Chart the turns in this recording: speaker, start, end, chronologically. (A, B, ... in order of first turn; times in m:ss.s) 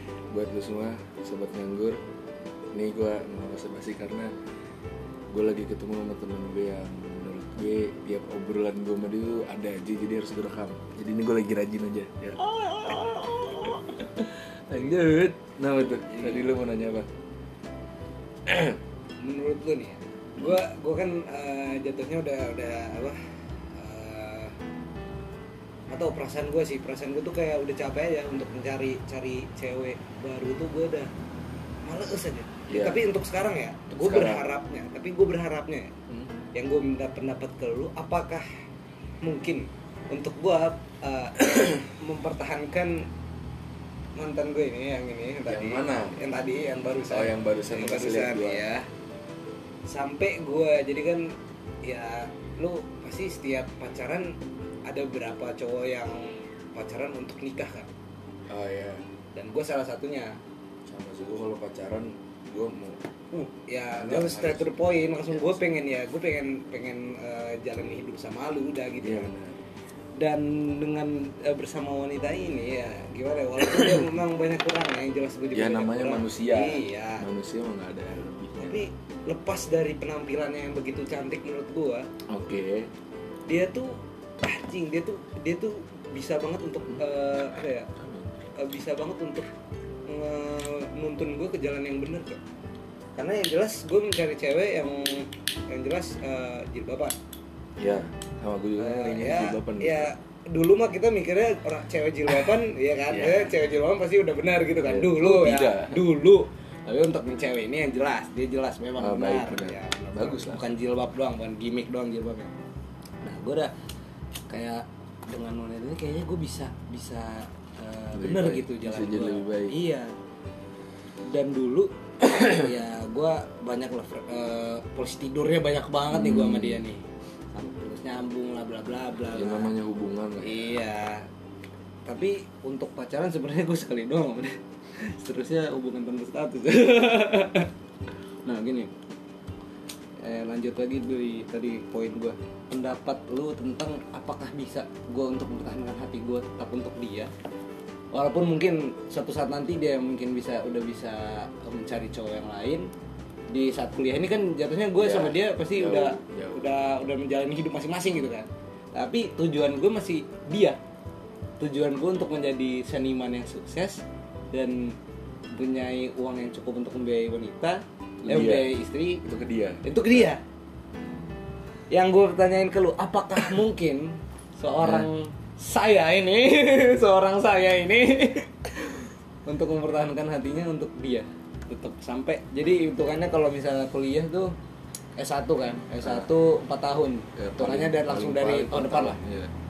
0:00.3-0:02.0 A
0:02.7-0:04.3 A
0:05.3-0:12.4 A
0:12.4-0:14.0 B
0:14.2-0:17.1 A
0:16.1-0:16.5 B
0:18.5-0:18.8 A
0:19.2-0:23.2 B
0:23.7-0:24.6 B
0:25.9-0:31.1 B
0:31.8-0:35.9 B
0:32.7-0:33.0 A
0:33.9-0:34.5 A
0:36.5-0:38.5 B
0:39.2-0:43.1 B
0:44.2-0:48.9 B
0:45.5-0:46.2 A
0:47.1-0:48.6 A
0:49.9-0:51.3 B
0:51.8-0:57.9 B
0:58.5-0:59.0 A
0:59.4-1:00.4 B
1:00.9-1:03.0 A
1:03.3-1:09.3 B
1:03.9-1:05.6 A
1:09.0-1:09.6 A
1:10.2-1:17.3 B
1:15.5-1:18.9 A
1:18.6-1:22.1 B
1:22.3-1:22.9 A
1:23.5-1:27.9 B
1:27.9-1:28.4 A
1:28.6-1:29.5 B
1:30.0-1:32.4 B
1:33.2-1:37.2 B
1:37.8-1:40.1 A
1:38.8-1:52.5 B
1:43.1-1:43.6 A
1:44.8-1:46.1 A
1:49.0-1:50.6 A
1:53.2-1:53.7 B
1:54.5-2:00.1 B
1:58.1-1:59.8 A
2:01.3-2:09.7 B
2:06.1-2:06.8 A
2:09.3-2:10.8 A
2:10.4-2:11.3 B
2:12.1-2:17.7 B
2:18.5-2:18.9 B
2:20.2-2:27.3 B
2:28.1-2:32.9 B
2:33.5-2:40.8 B
2:35.0-2:36.7 A
2:41.6-2:45.0 B
2:45.5-2:49.2 B
2:48.2-2:48.7 A
2:49.2-2:50.3 A
2:49.8-2:50.4 B
2:51.9-3:04.5 B
2:54.8-2:55.1 A
3:05.2-3:09.2 B
3:06.0-3:06.3 A
3:07.4-3:09.5 A